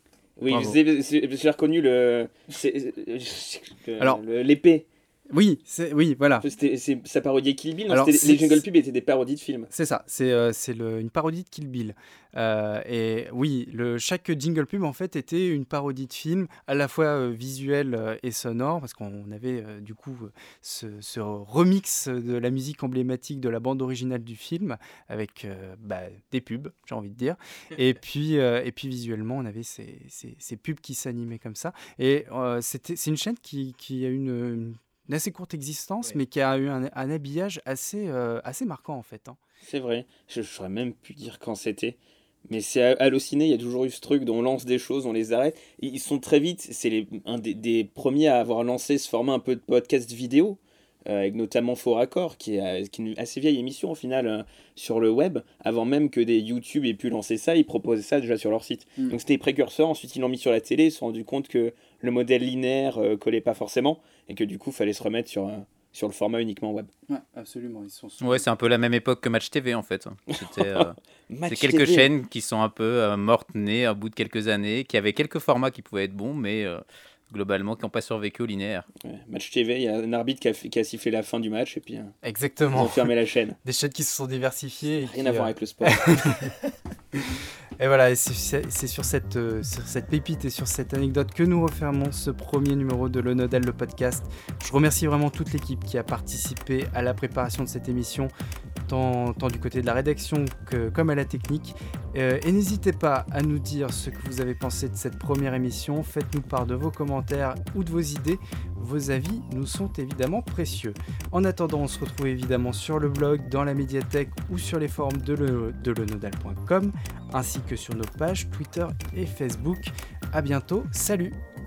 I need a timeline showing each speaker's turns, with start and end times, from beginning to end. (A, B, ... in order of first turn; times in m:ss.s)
0:00.4-0:04.8 A
0:00.5-0:00.8 B
0:05.3-0:06.4 B
0:06.4-0:09.7 A
0:07.9-0:08.6 B
0:09.7-0:39.4 B
0:39.6-1:06.9 A
1:07.1-1:08.4 B
1:08.2-1:11.0 C
1:10.3-1:12.1 A
1:11.5-1:18.9 C
1:19.0-1:22.1 A
1:22.2-1:23.1 B
1:22.7-1:23.6 A
1:23.6-1:26.5 B
1:25.0-1:26.4 A
1:27.1-1:38.3 B
1:38.9-2:01.4 B